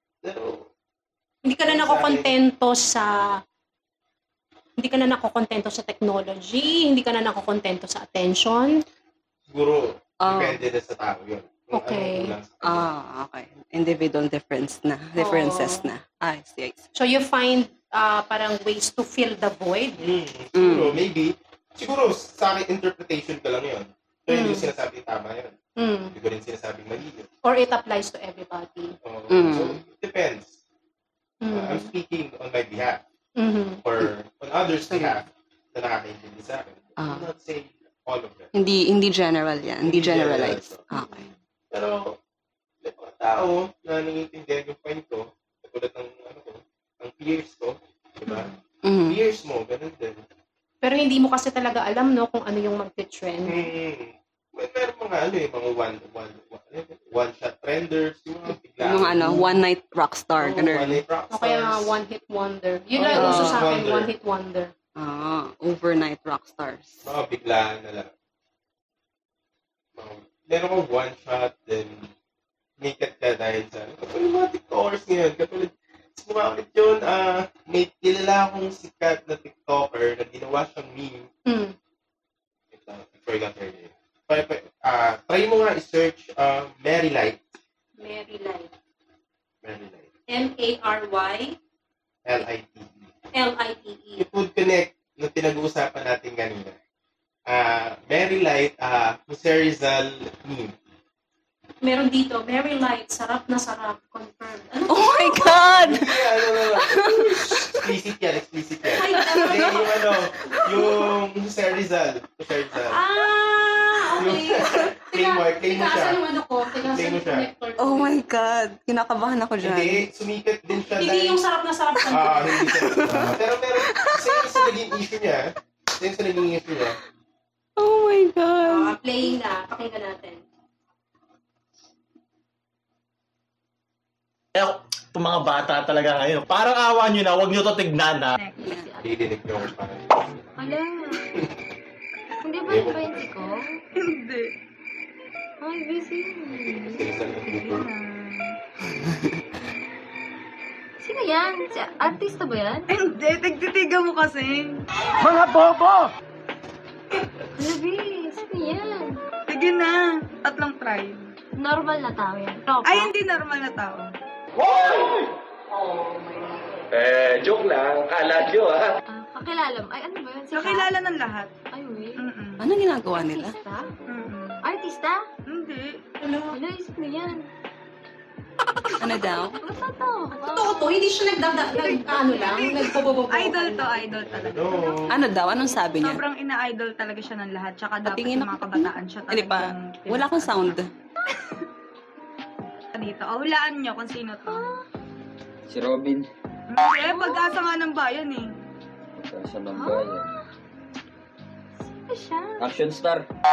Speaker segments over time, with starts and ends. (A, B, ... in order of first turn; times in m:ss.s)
0:00.2-0:00.6 A
0:01.4-0:03.2 B
0:01.6-0:02.4 A
0:04.8-0:08.8 B
0:09.5-0:12.9 A
0:10.2-0:10.6 C
0:11.7-0:12.3 B
0:12.6-0:16.8 C
0:15.2-0:15.9 B
0:17.0-0:20.0 B
0:20.0-0:25.6 A
0:20.6-0:21.0 C
0:24.3-0:24.7 B
0:25.8-0:26.1 B
0:26.1-0:27.3 A
0:27.4-0:29.0 B
0:29.0-0:30.6 A
0:29.3-0:29.8 C
0:31.4-0:31.9 B
0:31.5-0:33.0 A
0:33.4-0:33.8 B
0:33.8-0:38.5 A
0:34.9-0:35.2 C
0:37.0-0:37.3 C
0:38.5-0:41.3 C
0:39.8-0:40.8 A
0:40.9-0:41.2 B
0:41.7-0:42.2 A
0:42.8-0:48.5 A
0:48.8-0:49.2 C
0:49.1-0:50.2 A
0:50.8-0:53.7 B
0:53.5-0:59.6 A
0:58.8-1:01.0 C
1:00.4-1:01.9 A
1:01.3-1:04.7 B
1:03.0-1:04.1 A
1:03.1-1:03.7 C
1:05.0-1:07.1 C
1:07.0-1:08.1 A
1:10.0-1:12.1 A
1:12.8-1:21.3 A
1:21.5-1:21.8 B
1:22.7-1:27.5 A
1:28.0-1:28.7 B
1:29.6-1:30.1 A
1:30.3-1:31.6 B
1:32.3-1:33.1 A
1:33.4-1:34.3 B
1:34.2-1:36.8 A
1:37.5-1:40.8 A
1:41.8-1:45.8 B
1:44.9-1:47.9 C
1:45.6-1:53.0 A
1:48.9-1:49.8 B
1:49.2-1:49.9 C
1:50.5-1:50.9 C
1:52.9-1:58.2 B
1:54.2-1:56.2 A
1:56.8-1:57.5 A
1:57.8-2:00.0 C
1:59.6-2:01.4 A
2:01.0-2:02.8 B
2:02.1-2:07.0 A
2:02.6-2:04.7 C
2:07.8-2:09.0 C
2:08.6-2:10.4 B
2:14.6-2:18.4 D
2:18.4-2:18.8 E
2:18.6-2:18.9 C
2:18.7-2:19.2 F
2:19.0-2:20.0 A
2:20.6-2:21.2 F
2:22.4-2:23.8 F
2:22.6-2:23.3 A
2:24.0-2:24.5 E
2:25.6-2:27.1 F
2:26.8-2:27.9 A
2:27.5-2:28.6 E
2:31.0-2:32.9 F
2:32.9-2:34.8 E
2:37.6-2:39.2 F
2:39.5-2:41.3 E
2:41.6-2:43.1 F
2:42.8-2:44.1 E
2:44.6-2:45.4 D
2:45.8-2:46.5 B
2:46.9-2:49.0 D
2:49.1-2:50.9 F
2:50.5-2:51.5 E
2:51.7-2:52.2 F
2:52.2-2:52.6 E
2:52.6-2:53.6 C
2:53.1-2:54.0 F
2:54.1-2:54.6 E
2:54.6-2:55.2 F
2:55.5-2:56.0 E
2:56.2-2:56.6 B
2:56.5-2:57.5 F
2:59.0-2:59.6 C
2:59.6-3:01.0 F
3:00.4-3:04.1 B
3:01.7-3:05.0 E
3:02.2-3:02.6 F
3:04.2-3:05.2 A
3:05.1-3:06.2 C
3:06.0-3:10.8 E
3:08.0-3:10.9 C
3:13.0-3:14.6 E
3:14.5-3:14.8 F
3:15.7-3:16.3 G
3:16.7-3:18.5 E
3:17.0-3:17.6 F
3:19.2-3:20.3 G
3:19.7-3:20.4 F
3:21.8-3:22.7 F
3:22.6-3:23.2 G